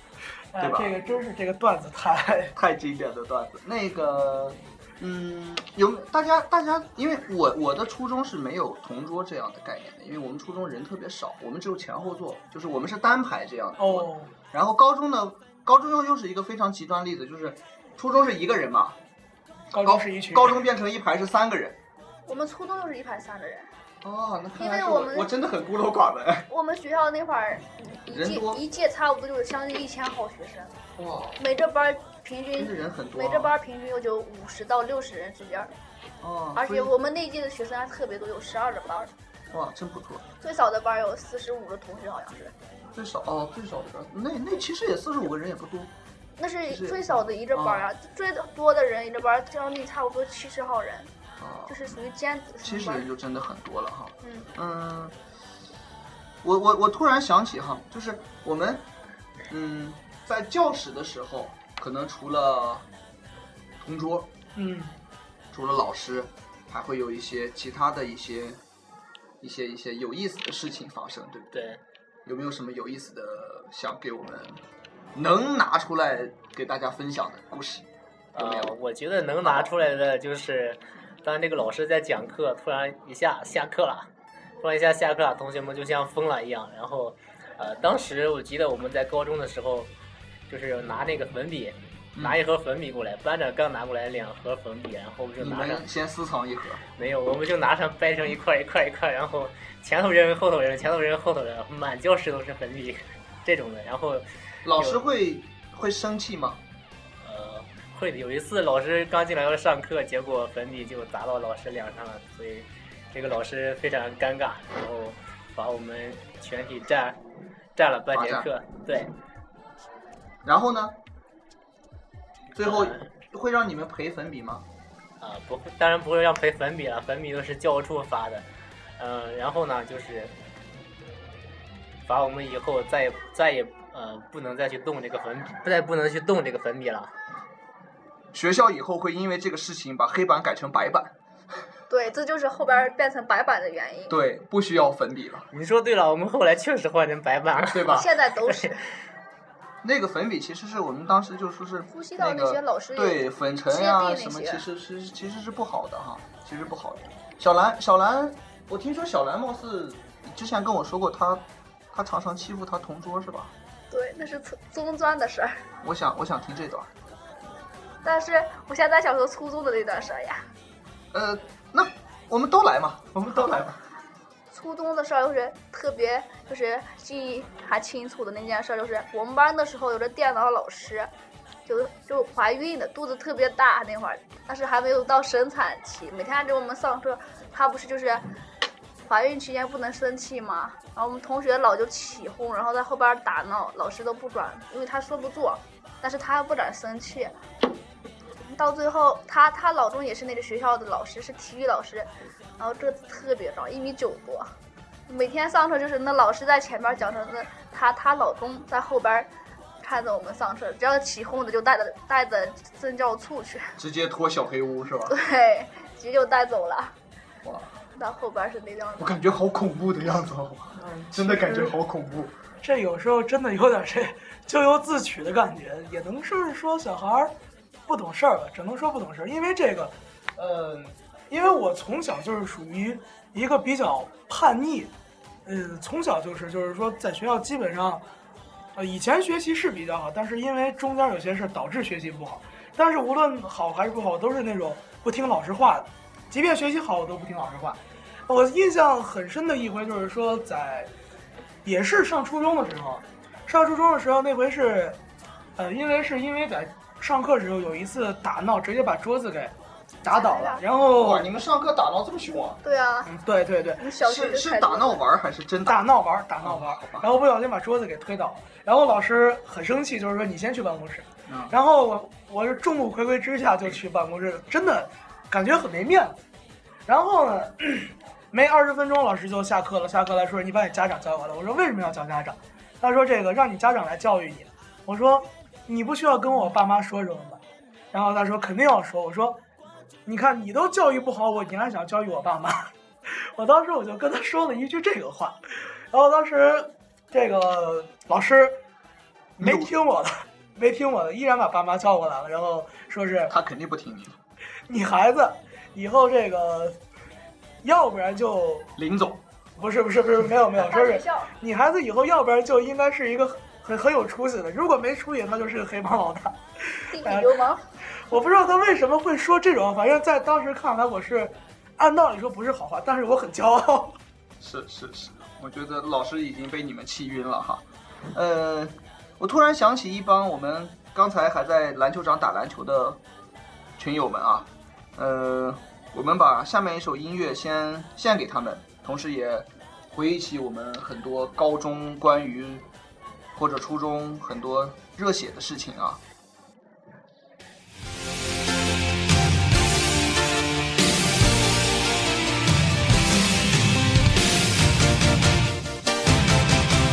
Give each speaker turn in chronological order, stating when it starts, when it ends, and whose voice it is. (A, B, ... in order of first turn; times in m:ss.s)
0:00.5-0:02.5 A
0:00.6-0:01.0 B
0:02.6-0:19.0 B
0:13.8-0:14.3 A
0:19.7-0:20.5 A
0:19.8-0:21.8 B
0:22.3-0:23.7 C
0:24.0-0:26.5 B
0:24.6-0:25.3 C
0:26.5-0:30.7 C
0:28.1-0:28.6 B
0:31.0-0:31.4 B
0:31.4-0:35.7 C
0:32.5-0:33.5 B
0:36.2-0:36.9 B
0:36.6-0:39.1 C
0:39.5-0:40.2 B
0:40.4-0:42.5 C
0:42.9-0:45.9 B
0:46.4-0:51.1 C
0:46.7-0:47.9 B
0:51.4-0:51.9 B
0:51.7-0:53.0 C
0:52.6-0:55.1 B
0:54.2-0:54.5 C
0:56.4-0:58.8 B
0:59.5-1:02.8 B
1:03.8-1:04.3 B
1:04.6-1:04.9 A
1:05.5-1:08.6 B
1:09.4-1:11.5 B
1:11.5-1:11.8 D
1:12.2-1:14.6 B
1:15.1-1:18.8 B
1:18.3-1:24.1 D
1:19.4-1:19.7 B
1:24.6-1:29.9 D
1:30.5-1:35.8 D
1:35.4-1:36.8 B
1:37.0-1:45.0 D
1:44.6-1:46.6 B
1:47.2-1:57.2 D
1:57.8-1:59.1 D
1:58.1-1:58.5 B
2:00.4-2:01.0 B
2:02.5-2:04.6 B
2:02.6-2:03.0 D
2:05.2-2:08.4 D
2:09.0-2:10.3 D
2:12.1-2:17.1 D
2:18.3-2:21.1 B
2:21.9-2:24.2 C
2:24.1-2:25.5 B
2:25.5-2:28.7 D
2:27.7-2:28.1 B
2:27.8-2:28.8 C
2:29.8-2:43.5 B
2:31.9-2:34.6 C
2:43.9-2:45.6 C
2:45.8-2:46.9 B
2:48.0-2:50.4 C
2:51.1-2:53.8 B
2:54.5-3:01.1 C
3:01.7-3:08.2 C
3:09.0-3:17.3 C
3:18.4-3:24.5 C
3:25.1-3:29.3 C
3:29.8-3:33.7 C
3:33.8-3:35.2 B
3:35.1-3:36.9 C
3:37.4-3:37.7 B
3:37.9-3:39.2 C
3:39.0-3:42.3 B
3:40.8-3:41.7 A
3:42.6-3:47.3 A
3:47.9-3:49.9 A
3:50.4-3:50.9 B
3:51.3-3:54.9 A
3:55.4-3:58.0 A
3:58.8-4:10.9 A
4:11.6-4:15.0 A
4:15.6-4:21.2 A
4:20.1-4:20.6 C
4:20.9-4:22.6 B
4:22.6-4:23.1 C
4:23.0-4:23.8 A
4:23.8-4:25.0 C
4:24.0-4:25.8 B
4:25.6-4:36.2 A
4:26.4-4:27.1 B
4:31.3-4:31.5 B
4:36.9-4:47.4 A
4:47.9-4:49.4 A
4:50.0-4:55.4 A
4:55.9-4:58.6 A
4:59.4-4:59.7 B
4:59.4-5:03.3 A
5:03.3-5:04.2 B
5:04.7-5:06.8 A
5:07.6-5:08.7 A
5:08.8-5:09.2 B
5:09.6-5:17.3 A
5:10.6-5:11.3 C
5:16.9-5:17.6 C
5:18.1-5:24.0 A
5:24.4-5:33.0 B
5:33.8-5:42.6 B
5:43.4-5:46.0 B